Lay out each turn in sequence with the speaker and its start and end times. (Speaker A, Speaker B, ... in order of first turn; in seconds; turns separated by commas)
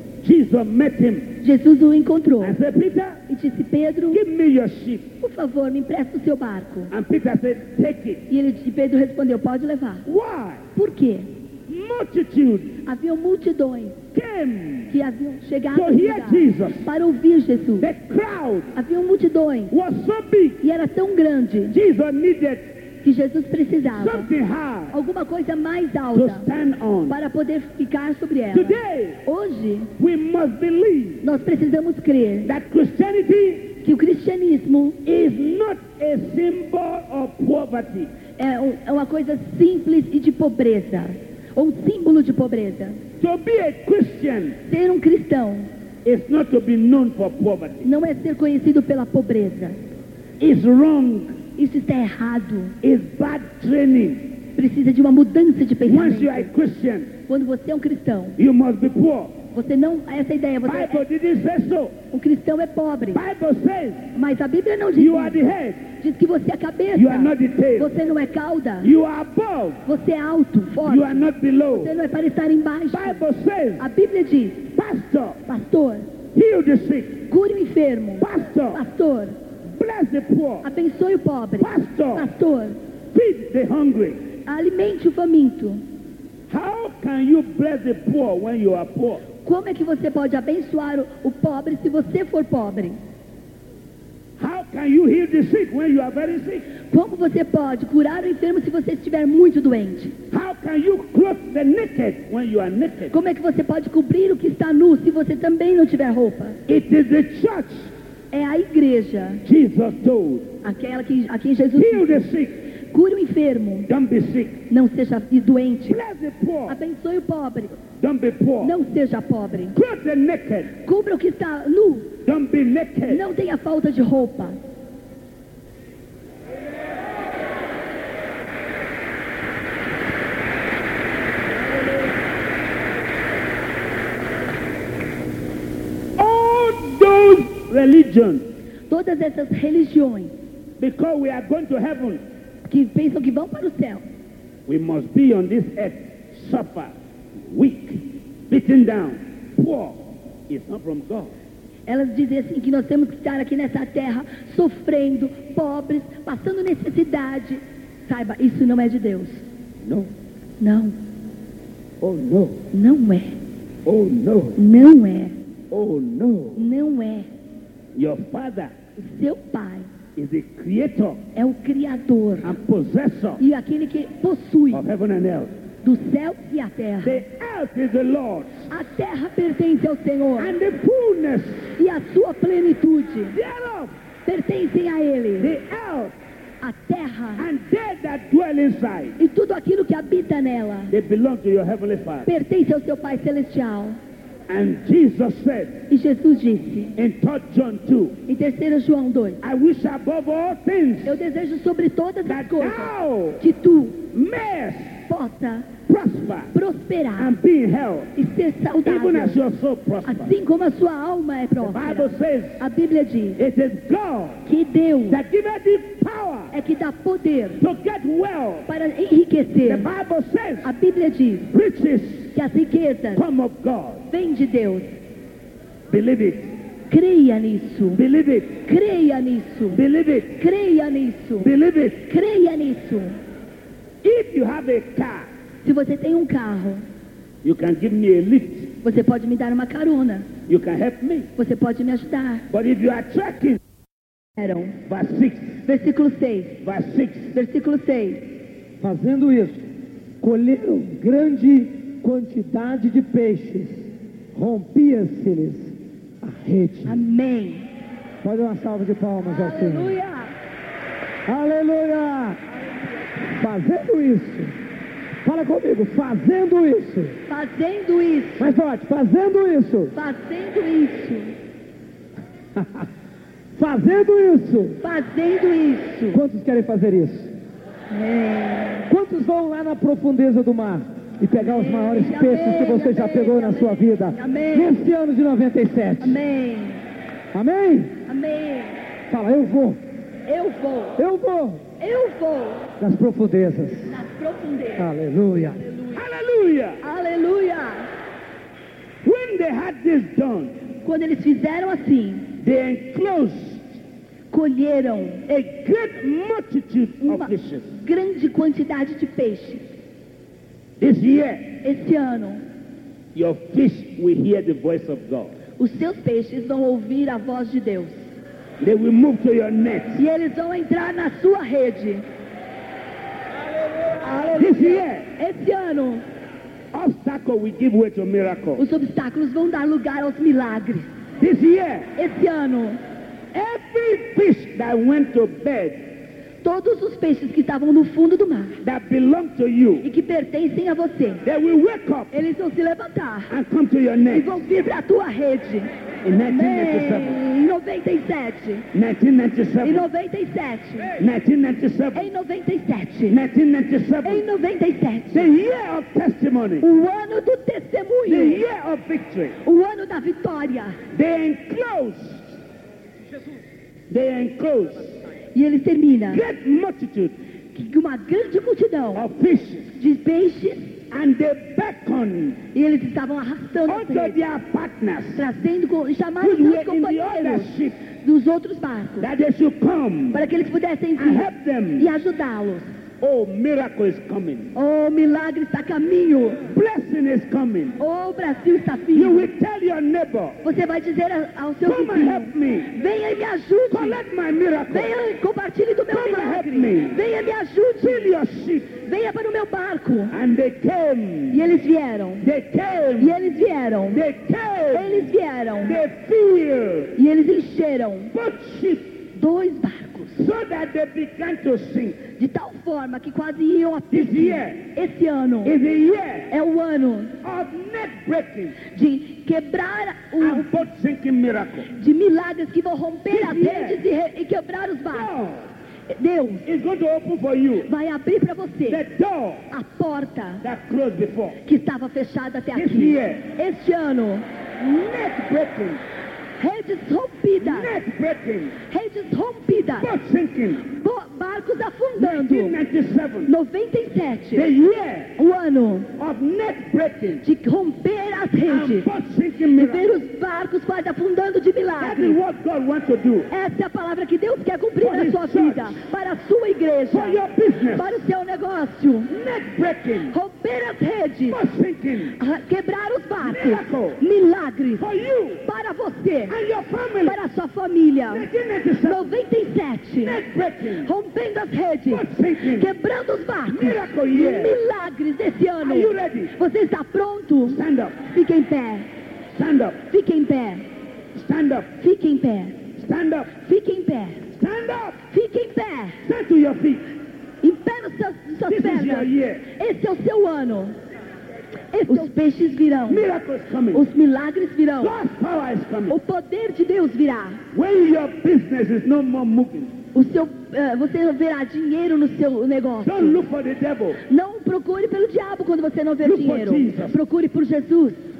Speaker A: 0.2-1.4, Speaker B: 1.4-2.6, Speaker A: 2.4-3.2, Speaker B: 3.3-4.2, Speaker A: 4.1-5.1, Speaker B: 5.2-6.9, Speaker A: 6.9-8.2, Speaker B: 8.3-10.0, Speaker A: 10.0-10.6, Speaker B: 10.7-11.3, Speaker A: 11.7-12.8, Speaker B: 12.8-14.0, Speaker A: 14.1-14.9, Speaker B: 14.9-17.9, Speaker A: 15.7-16.9, Speaker A: 17.8-18.7, Speaker B: 18.7-19.7, Speaker A: 19.7-20.6, Speaker B: 20.6-21.7, Speaker A: 21.7-22.7, Speaker B: 23.0-24.3, Speaker A: 23.9-24.9, Speaker B: 24.9-26.5, Speaker A: 26.1-27.1, Speaker B: 27.1-29.9, Speaker A: 28.5-29.2, Speaker A: 30.0-31.2, Speaker B: 31.2-32.5, Speaker A: 32.4-33.8, Speaker B: 33.8-35.0, Speaker A: 35.0-38.1, Speaker B: 38.4-43.0, Speaker A: 43.2-44.6, Speaker B: 44.6-45.7, Speaker A: 46.0-47.9, Speaker B: 47.8-49.8, Speaker A: 50.4-51.4, Speaker B: 51.5-52.8, Speaker A: 52.8-54.4, Speaker B: 54.5-56.5, Speaker A: 55.9-57.1, Speaker B: 57.3-58.4, Speaker A: 58.4-59.4, Speaker B: 59.5-61.0, Speaker A: 60.6-62.0, Speaker B: 62.1-63.2, Speaker A: 63.1-64.1, Speaker B: 64.1-65.4, Speaker A: 65.0-65.9, Speaker B: 66.0-68.9, Speaker A: 66.9-67.9, Speaker A: 68.8-69.8, Speaker B: 69.9-73.2, Speaker A: 70.8-71.9, Speaker A: 72.9-73.9, Speaker B: 73.8-74.7, Speaker A: 74.7-75.4, Speaker B: 75.5-76.1, Speaker A: 76.3-77.2, Speaker B: 77.3-79.4, Speaker A: 78.2-78.8, Speaker A: 79.6-80.7, Speaker B: 80.6-82.8, Speaker A: 81.6-82.3, Speaker A: 83.1-84.2, Speaker B: 84.5-85.8, Speaker A: 86.5-89.2, Speaker B: 89.4-93.0, Speaker A: 94.4-96.7, Speaker B: 96.9-100.2, Speaker A: 100.3-103.1, Speaker B: 103.1-106.6, Speaker A: 106.7-107.9, Speaker B: 108.3-109.4, Speaker A: 109.4-110.5, Speaker B: 110.6-112.2, Speaker A: 111.7-112.6, Speaker B: 112.9-113.9, Speaker A: 113.9-114.6, Speaker B: 114.7-116.0, Speaker A: 115.9-116.8, Speaker B: 116.7-117.8, Speaker A: 118.0-118.8, Speaker B: 118.6-119.8, Speaker A: 119.7-120.7, Speaker B: 120.8-122.2, Speaker A: 122.2-123.2, Speaker B: 123.1-124.6, Speaker A: 136.2-138.5, Speaker B: 138.9-140.3, Speaker A: 140.8-142.2, Speaker B: 142.7-144.0, Speaker A: 144.7-151.3, Speaker B: 151.9-159.4, Speaker A: 159.8-160.1, Speaker B: 160.6-160.9, Speaker A: 162.0-162.7, Speaker B: 162.7-163.4, Speaker A: 163.8-164.6, Speaker B: 164.6-165.4, Speaker A: 165.7-166.6, Speaker B: 166.6-167.3, Speaker A: 167.9-168.7, Speaker B: 169.0-169.9, Speaker A: 170.2-171.2, Speaker B: 171.4-172.5, Speaker A: 172.4-173.4, Speaker B: 173.4-174.8, Speaker A: 174.7-175.5, Speaker B: 175.8-177.2, Speaker A: 177.0-178.7, Speaker B: 178.7-180.5, Speaker A: 180.4-181.7, Speaker B: 181.8-183.4, Speaker A: 183.3-183.9, Speaker B: 184.2-185.5, Speaker A: 185.4-186.1, Speaker B: 186.6-187.4, Speaker A: 187.4-189.2, Speaker B: 189.2-190.9, Speaker A: 190.9-192.3, Speaker B: 192.2-194.0, Speaker A: 194.5-195.8, Speaker B: 195.9-196.9, Speaker A: 196.9-198.2, Speaker B: 198.3-199.4, Speaker A: 199.4-201.2, Speaker B: 201.0-204.0, Speaker A: 202.2-203.4, Speaker A: 204.0-205.0, Speaker B: 205.1-205.7, Speaker A: 205.9-206.5, Speaker B: 206.5-207.3, Speaker A: 207.2-208.1, Speaker B: 208.2-209.4, Speaker A: 208.8-210.3, Speaker B: 210.0-213.4, Speaker A: 211.6-212.6, Speaker A: 213.4-214.4, Speaker B: 214.4-215.2, Speaker A: 215.1-216.5, Speaker B: 216.5-217.6, Speaker A: 217.6-218.7, Speaker B: 218.7-219.9, Speaker A: 219.6-220.7, Speaker B: 220.6-221.5, Speaker A: 221.5-222.3, Speaker B: 222.3-223.2, Speaker A: 223.1-224.0, Speaker B: 224.1-224.9, Speaker A: 225.9-226.5, Speaker B: 226.9-228.0, Speaker A: 227.9-228.6, Speaker B: 228.7-229.8, Speaker A: 229.7-230.4, Speaker B: 230.4-231.5, Speaker A: 231.4-232.1, Speaker B: 232.1-233.2, Speaker A: 234.0-235.3, Speaker B: 235.6-236.8, Speaker A: 237.4-238.7, Speaker B: 238.8-240.3, Speaker A: 240.5-241.3, Speaker B: 241.4-242.4, Speaker A: 242.5-243.6, Speaker B: 244.4-244.8, Speaker A: 244.9-245.6, Speaker B: 245.7-246.6, Speaker A: 246.6-247.3, Speaker B: 247.3-248.3, Speaker C: 248.8-249.6, Speaker C: 250.2-257.0, Speaker B: 256.9-257.7, Speaker C: 258.2-259.9, Speaker B: 259.2-260.3, Speaker C: 261.3-262.4, Speaker C: 263.2-264.5, Speaker C: 265.2-267.2, Speaker B: 267.3-268.5, Speaker C: 268.4-269.9, Speaker B: 269.9-271.4, Speaker C: 272.6-272.9, Speaker C: 273.6-274.8, Speaker B: 274.8-276.2, Speaker C: 276.1-277.3, Speaker B: 277.9-278.9, Speaker C: 278.9-286.2, Speaker B: 281.4-284.8, Speaker B: 286.0-286.8, Speaker C: 287.3-288.0, Speaker B: 288.1-288.8, Speaker C: 289.1-289.8, Speaker B: 290.2-291.0, Speaker C: 291.0-291.6, Speaker B: 291.8-292.7, Speaker C: 292.8-294.0, Speaker B: 293.9-294.9, Speaker C: 294.8-295.6, Speaker B: 295.6-296.0, Speaker A: 295.9-296.8, Speaker B: 296.8-297.9, Speaker A: 299.0-300.6, Speaker B: 300.8-302.3, Speaker A: 302.4-303.8, Speaker B: 304.3-305.2, Speaker A: 305.3-307.7, Speaker B: 307.0-309.6, Speaker A: 310.8-311.6, Speaker B: 311.6-312.4, Speaker A: 313.1-315.4, Speaker B: 315.6-318.0, Speaker A: 318.6-320.0, Speaker B: 319.9-322.1, Speaker B: 324.0-326.0, Speaker A: 324.3-325.1, Speaker A: 326.7-328.6, Speaker B: 328.6-330.9, Speaker A: 331.2-331.9, Speaker B: 331.9-332.8, Speaker A: 333.3-335.9, Speaker B: 336.4-338.6, Speaker A: 338.6-339.9, Speaker B: 339.8-341.2, Speaker A: 341.2-342.1, Speaker B: 342.1-343.3, Speaker A: 343.3-344.4, Speaker B: 344.1-345.7, Speaker A: 346.0-347.2, Speaker B: 346.2-348.7, Speaker A: 348.7-349.9, Speaker B: 349.6-350.9, Speaker A: 351.0-352.1, Speaker B: 351.9-353.2, Speaker A: 353.1-354.2, Speaker B: 354.0-355.3, Speaker A: 355.1-356.6, Speaker B: 356.6-358.4, Speaker A: 358.1-359.4, Speaker B: 359.4-360.8, Speaker A: 360.9-362.4, Speaker A: 363.9-365.0, Speaker B: 365.3-366.2, Speaker A: 366.1-367.1, Speaker B: 367.5-369.1, Speaker A: 368.9-369.8, Speaker B: 369.8-370.8, Speaker A: 370.9-372.4, Speaker B: 372.5-374.2, Speaker A: 373.7-375.2, Speaker B: 375.1-379.1, Speaker A: 376.2-377.8, Speaker A: 379.0-380.2, Speaker B: 380.1-382.8, Speaker A: 381.0-382.0, Speaker A: 383.0-384.5, Speaker B: 384.5-386.4, Speaker A: 386.5-387.8, Speaker B: 387.8-389.3, Speaker A: 388.9-390.4, Speaker B: 390.4-394.0, Speaker A: 391.6-392.7, Speaker A: 393.7-394.9, Speaker B: 394.7-398.1, Speaker A: 395.9-397.0, Speaker A: 397.8-398.8, Speaker B: 398.8-400.1, Speaker A: 400.1-401.5, Speaker B: 401.3-402.2, Speaker A: 402.2-403.1, Speaker B: 403.0-404.0, Speaker A: 403.9-405.1, Speaker B: 404.7-405.8, Speaker A: 405.6-406.9, Speaker B: 406.9-408.1, Speaker A: 408.1-409.1, Speaker B: 409.1-410.2, Speaker A: 410.1-412.1, Speaker B: 412.1-415.6, Speaker A: 413.9-414.6, Speaker A: 415.4-416.3, Speaker B: 416.3-417.1, Speaker A: 417.2-418.6, Speaker B: 418.6-420.6, Speaker A: 420.2-421.7, Speaker B: 421.7-425.1, Speaker A: 423.1-423.8, Speaker A: 424.9-425.5, Speaker B: 425.9-426.5, Speaker A: 426.4-427.7, Speaker B: 427.6-428.8, Speaker A: 428.7-429.5, Speaker B: 429.5-430.4, Speaker A: 430.4-431.4, Speaker B: 431.4-434.2, Speaker A: 432.5-433.2, Speaker A: 434.6-435.8, Speaker B: 436.4-437.7, Speaker A: 437.4-438.6, Speaker B: 438.7-439.9, Speaker A: 439.8-440.6, Speaker B: 440.6-442.6, Speaker A: 442.0-443.3, Speaker B: 443.2-444.5, Speaker A: 444.3-445.1, Speaker B: 445.2-445.9, Speaker A: 445.9-447.2, Speaker B: 447.2-448.9, Speaker A: 448.4-449.9, Speaker B: 449.6-452.2, Speaker A: 451.8-453.3, Speaker B: 453.3-457.2, Speaker A: 454.8-455.8, Speaker A: 456.9-458.0, Speaker B: 457.7-459.1, Speaker A: 459.1-460.1, Speaker B: 460.1-461.4, Speaker A: 461.3-462.2, Speaker B: 462.2-464.9, Speaker A: 463.2-464.0, Speaker A: 464.8-465.4, Speaker B: 465.4-466.4, Speaker A: 466.3-467.2, Speaker B: 467.0-468.3, Speaker A: 468.1-469.1, Speaker B: 468.9-470.2, Speaker A: 470.0-470.9, Speaker B: 470.8-478.9, Speaker A: 471.9-472.7, Speaker A: 473.5-474.6, Speaker A: 475.6-476.3, Speaker A: 477.4-478.0, Speaker A: 479.3-479.8, Speaker B: 479.9-480.6, Speaker A: 481.1-481.7, Speaker B: 481.8-482.6, Speaker A: 482.8-483.3, Speaker B: 483.3-484.3, Speaker A: 484.4-485.0, Speaker B: 485.1-486.0, Speaker A: 486.0-486.9, Speaker B: 487.4-490.8, Speaker A: 488.5-489.4, Speaker B: 491.7-493.1, Speaker A: 492.9-493.9, Speaker B: 493.7-495.0, Speaker A: 494.8-496.0, Speaker B: 495.9-497.4, Speaker A: 497.5-499.8, Speaker B: 499.9-503.2, Speaker A: 502.8-504.0, Speaker B: 504.1-508.0, Speaker A: 506.0-507.0